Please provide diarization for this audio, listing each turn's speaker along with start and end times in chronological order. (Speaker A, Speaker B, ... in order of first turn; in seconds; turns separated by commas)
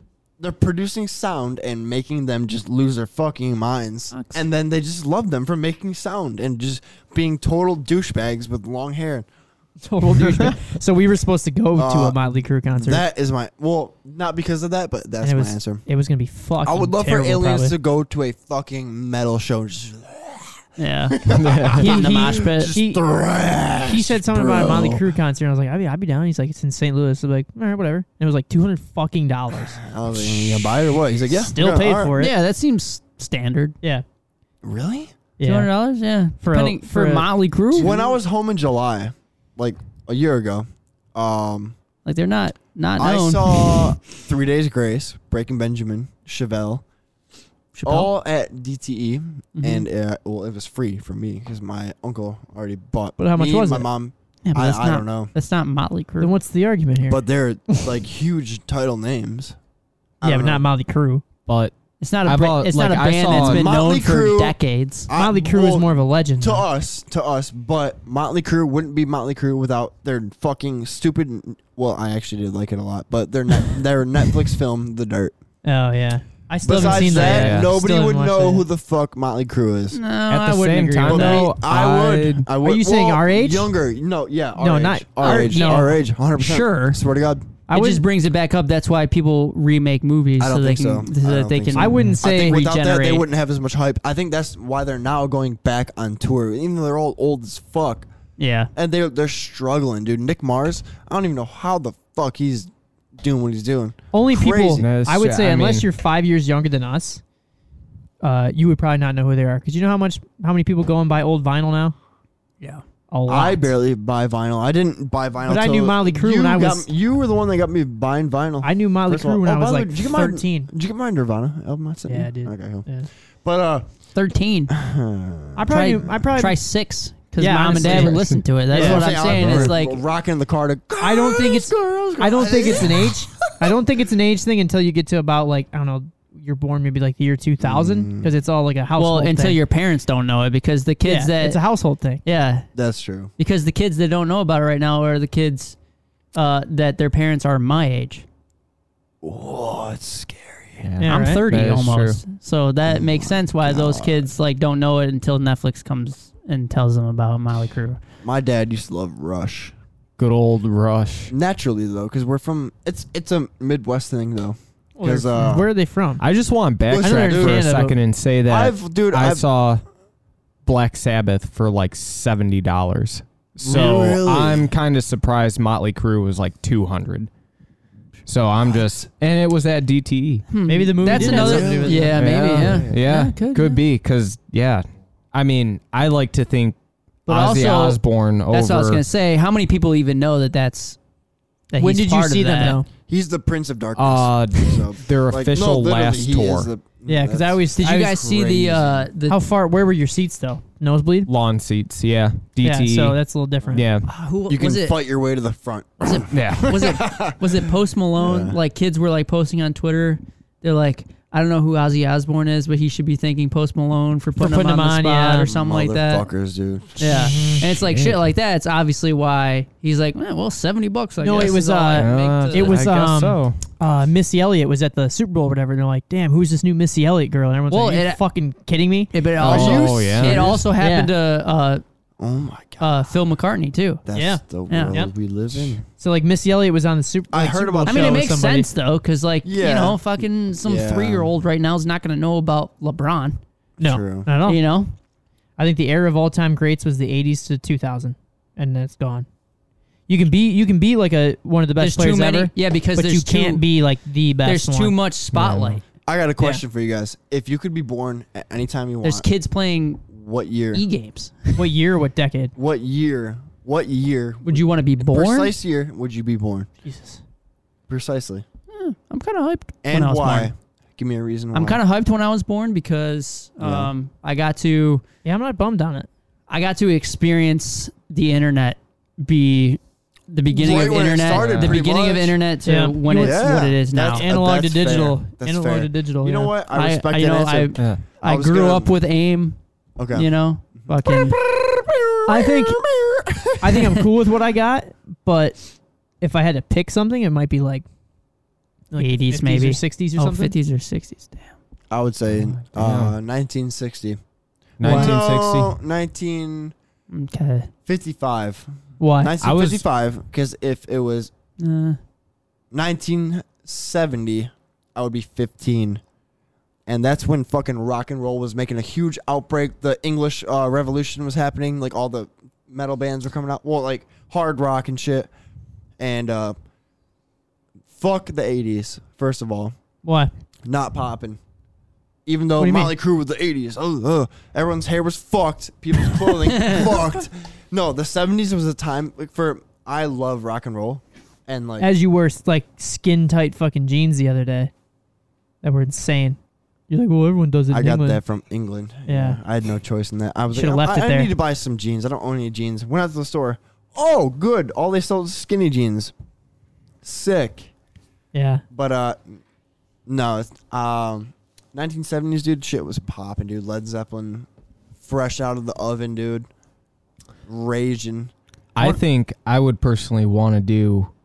Speaker A: 0.4-9.3, Speaker B: 4.1-4.4, Speaker C: 9.8-13.1, Speaker A: 11.8-12.2, Speaker A: 12.8-15.8, Speaker C: 15.2-17.8, Speaker A: 16.6-20.6, Speaker B: 20.8-21.2, Speaker A: 21.1-25.1, Speaker D: 21.3-21.8, Speaker B: 21.7-22.8, Speaker C: 21.8-23.1, Speaker C: 23.8-29.9, Speaker A: 29.8-32.1, Speaker C: 31.3-32.3, Speaker B: 32.1-33.8, Speaker A: 34.6-35.1, Speaker C: 35.4-35.8, Speaker B: 35.4-38.0, Speaker C: 36.4-38.0, Speaker A: 37.7-41.8, Speaker B: 42.0-43.9, Speaker A: 43.0-46.8, Speaker B: 47.7-48.1, Speaker A: 47.9-55.3, Speaker B: 49.5-49.9, Speaker C: 53.2-53.9, Speaker B: 54.4-56.3, Speaker C: 56.2-57.2, Speaker A: 57.1-59.6, Speaker A: 60.2-60.6, Speaker C: 60.2-61.2, Speaker D: 61.5-63.7, Speaker B: 62.0-65.1, Speaker A: 63.3-65.9, Speaker C: 65.2-66.7, Speaker A: 66.4-75.4, Speaker C: 75.6-78.7, Speaker A: 76.6-80.0, Speaker B: 76.8-77.4, Speaker D: 76.8-77.7, Speaker B: 79.9-81.5, Speaker D: 80.3-82.5, Speaker A: 81.1-87.5, Speaker C: 82.6-83.8, Speaker C: 84.6-86.0, Speaker B: 85.3-85.8, Speaker B: 86.4-87.0, Speaker C: 87.7-88.0, Speaker B: 87.7-93.2, Speaker A: 90.4-98.1, Speaker C: 91.8-92.9, Speaker B: 98.4-98.7, Speaker A: 98.8-104.8, Speaker C: 104.1-107.2, Speaker D: 104.8-105.8, Speaker C: 108.2-112.0, Speaker C: 113.1-113.6, Speaker A: 113.3-122.9, Speaker C: 115.5-116.9, Speaker C: 118.6-120.7, Speaker C: 122.1-123.1, Speaker A: 123.4-123.9, Speaker B: 124.2-124.7, Speaker A: 124.7-125.6, Speaker C: 125.6-126.6, Speaker B: 125.7-130.1, Speaker C: 127.4-129.6, Speaker D: 127.7-128.5, Speaker A: 128.7-133.7, Speaker C: 131.0-139.6, Speaker A: 137.6-138.3, Speaker B: 139.0-141.6, Speaker C: 141.0-142.2, Speaker B: 142.2-142.7, Speaker A: 142.8-143.3, Speaker B: 143.4-145.8, Speaker B: 146.3-148.2, Speaker A: 149.2-150.9, Speaker D: 150.8-152.2, Speaker C: 151.0-151.5, Speaker B: 151.0-158.0, Speaker A: 152.8-154.3, Speaker A: 158.2-159.7, Speaker D: 160.2-161.3, Speaker A: 161.3-165.7, Speaker C: 165.0-166.2, Speaker D: 166.2-169.8, Speaker A: 166.9-167.7, Speaker C: 167.0-168.0, Speaker A: 168.5-169.4, Speaker D: 170.7-177.3, Speaker A: 173.6-174.7, Speaker D: 178.3-180.5, Speaker B: 180.5-183.8, Speaker C: 180.7-182.1, Speaker A: 181.1-183.0, Speaker D: 182.1-186.8, Speaker D: 187.3-189.0, Speaker B: 187.3-191.0, Speaker B: 191.7-192.8, Speaker C: 191.8-192.9, Speaker A: 193.1-199.1, Speaker D: 194.0-196.7, Speaker C: 197.1-198.2, Speaker B: 197.8-199.4, Speaker C: 199.3-201.3, Speaker D: 201.3-203.2, Speaker C: 202.6-203.8, Speaker D: 203.7-204.1, Speaker B: 204.0-205.0, Speaker A: 204.5-208.6, Speaker B: 206.0-216.3, Speaker D: 206.3-206.7, Speaker C: 214.4-215.5, Speaker A: 215.5-217.0, Speaker B: 217.0-222.8, Speaker C: 217.0-217.6, Speaker D: 217.6-218.2, Speaker C: 221.2-229.1, Speaker D: 221.9-223.6, Speaker B: 227.7-228.2, Speaker B: 229.1-231.8, Speaker A: 229.4-230.7, Speaker D: 229.4-230.5, Speaker C: 230.8-231.1, Speaker A: 232.2-233.1, Speaker B: 232.8-234.0, Speaker A: 234.1-235.8, Speaker C: 234.1-235.1, Speaker B: 234.7-235.0, Speaker C: 235.8-238.7, Speaker A: 237.3-238.3, Speaker B: 237.9-243.4, Speaker A: 239.4-241.3, Speaker C: 243.8-244.6, Speaker A: 243.8-244.3, Speaker B: 244.4-244.9, Speaker C: 245.6-249.3, Speaker C: 250.1-255.0, Speaker B: 251.8-253.6, Speaker B: 254.4-255.8, Speaker D: 255.3-255.8, Speaker A: 256.1-259.2, Speaker B: 259.0-260.0, Speaker A: 260.1-260.8, Speaker B: 260.7-261.6, Speaker C: 261.6-262.5, Speaker A: 262.6-266.7, Speaker B: 264.4-265.6, Speaker C: 266.8-267.2, Speaker A: 267.9-268.4, Speaker B: 268.7-270.5, Speaker A: 269.8-271.8, Speaker B: 271.5-275.0, Speaker A: 273.6-273.9, Speaker C: 275.2-276.1, Speaker B: 276.5-284.3, Speaker A: 280.5-282.4, Speaker D: 281.3-281.8, Speaker C: 282.6-283.5, Speaker A: 283.2-288.9, Speaker C: 284.1-286.5, Speaker B: 286.7-289.6, Speaker A: 290.0-294.0, Speaker B: 290.1-291.4, Speaker C: 292.3-292.9, Speaker C: 293.6-295.6, Speaker C: 296.2-297.9, Speaker C: 298.9-300.5, Speaker B: 299.0-301.6, Speaker A: 301.9-304.2, Speaker D: 302.7-303.1, Speaker D: 304.8-305.8, Speaker A: 304.8-306.7, Speaker B: 307.1-307.7, Speaker A: 307.9-311.3, Speaker C: 309.0-309.4, Speaker D: 309.4-309.8, Speaker B: 311.6-312.0, Speaker A: 312.7-316.0, Speaker A: 316.9-325.3, Speaker A: 326.0-326.6, Speaker A: 327.9-329.8, Speaker C: 330.0-330.3, Speaker A: 330.6-331.4, Speaker A: 332.3-341.9, Speaker C: 332.6-332.9, Speaker B: 336.5-337.0, Speaker C: 341.8-344.7, Speaker C: 345.6-346.4, Speaker C: 346.9-348.2, Speaker A: 347.7-356.1, Speaker C: 349.1-349.4, Speaker C: 350.5-351.3, Speaker A: 357.0-357.7, Speaker C: 358.3-358.6, Speaker A: 358.7-359.4, Speaker A: 360.1-364.5, Speaker A: 365.0-366.5, Speaker A: 367.5-369.0, Speaker D: 368.8-371.1